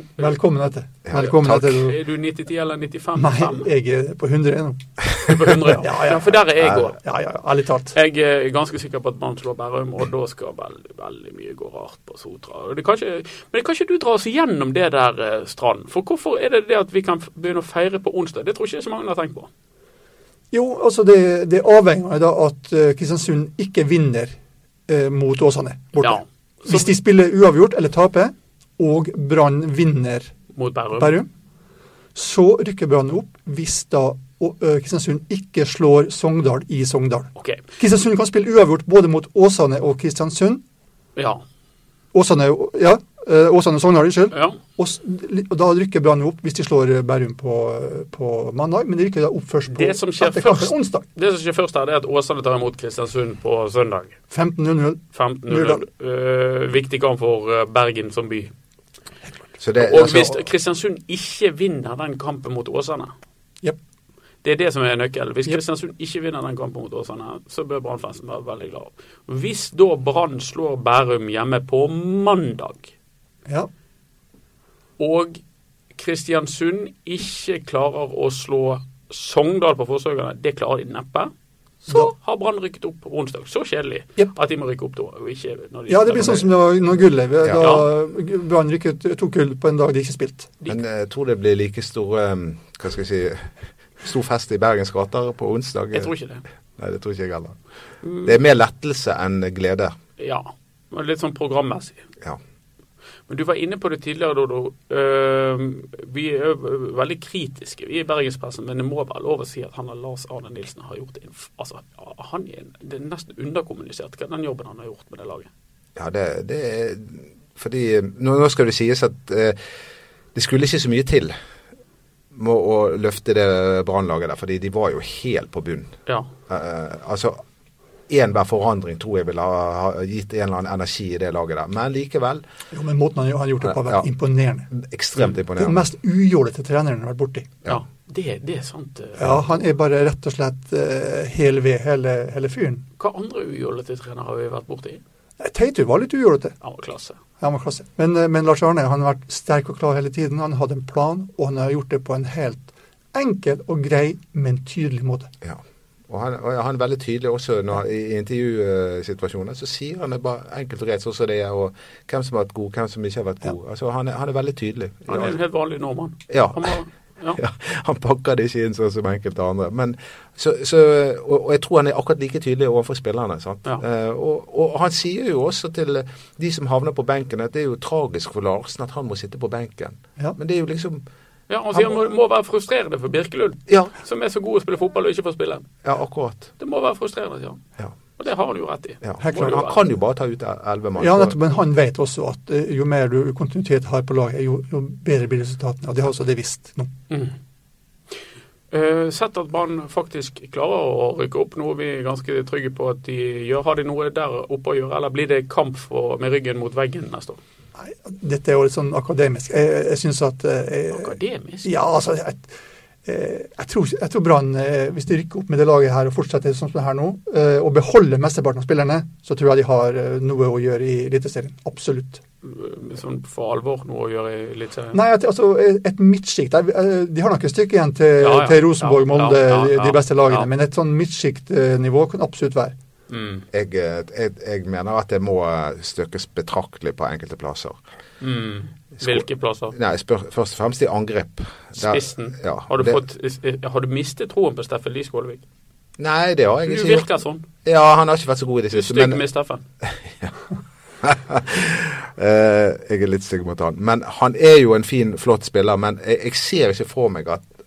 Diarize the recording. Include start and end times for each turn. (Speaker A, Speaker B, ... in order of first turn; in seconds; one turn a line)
Speaker A: 0.2-2.0
Speaker B: 1.1-1.8
Speaker C: 1.1-3.7
Speaker A: 3.1-4.8
Speaker C: 5.2-7.0
Speaker A: 5.7-6.4
Speaker A: 7.0-7.9
Speaker C: 7.9-19.5
Speaker A: 20.5-24.3
Speaker A: 24.9-30.3
Speaker C: 26.0-26.9
Speaker C: 30.5-31.2
Speaker A: 31.0-31.3
Speaker A: 32.1-40.6
Speaker C: 37.4-37.6
Speaker C: 41.1-41.4
Speaker A: 42.1-51.0
Speaker C: 44.3-44.6
Speaker C: 49.7-54.1
Speaker A: 54.3-55.8
Speaker C: 55.1-58.5
Speaker B: 59.6-60.4
Speaker C: 59.8-63.1
Speaker C: 64.4-72.9
Speaker C: 75.0-75.4
Speaker C: 75.9-81.3
Speaker C: 81.8-86.5
Speaker A: 85.9-90.6
Speaker B: 87.4-87.8
Speaker C: 87.6-87.9
Speaker B: 90.7-93.5
Speaker B: 94.0-96.1
Speaker C: 95.9-96.4
Speaker B: 96.8-97.6
Speaker C: 98.0-98.4
Speaker B: 98.2-99.9
Speaker C: 100.2-102.0
Speaker C: 103.3-115.5
Speaker B: 116.0-119.6
Speaker B: 120.3-121.3
Speaker B: 122.3-125.9
Speaker B: 126.5-127.4
Speaker B: 128.1-132.4
Speaker A: 132.7-134.7
Speaker B: 133.7-134.0
Speaker B: 134.7-135.8
Speaker A: 135.6-137.5
Speaker C: 137.7-139.3
Speaker A: 139.2-142.8
Speaker C: 143.0-145.0
Speaker A: 145.4-146.5
Speaker C: 146.6-147.2
Speaker A: 147.4-155.3
Speaker B: 155.4-165.3
Speaker C: 165.1-167.4
Speaker B: 166.3-166.8
Speaker B: 167.3-181.0
Speaker C: 181.5-185.7
Speaker B: 181.7-182.0
Speaker B: 185.8-186.5
Speaker C: 186.6-187.6
Speaker C: 188.2-189.8
Speaker B: 189.0-191.3
Speaker A: 189.2-189.6
Speaker A: 191.0-196.9
Speaker C: 197.1-197.3
Speaker C: 198.7-207.4
Speaker A: 207.8-212.5
Speaker C: 210.9-211.7
Speaker A: 213.0-222.2
Speaker C: 222.4-225.0
Speaker A: 224.9-232.8
Speaker C: 228.2-230.5
Speaker C: 233.1-233.4
Speaker B: 233.5-237.8
Speaker C: 238.2-239.7
Speaker B: 239.7-243.0
Speaker C: 241.8-245.4
Speaker B: 246.0-247.1
Speaker C: 246.7-247.4
Speaker B: 247.6-249.2
Speaker C: 248.7-249.6
Speaker B: 249.8-250.3
Speaker B: 251.0-257.4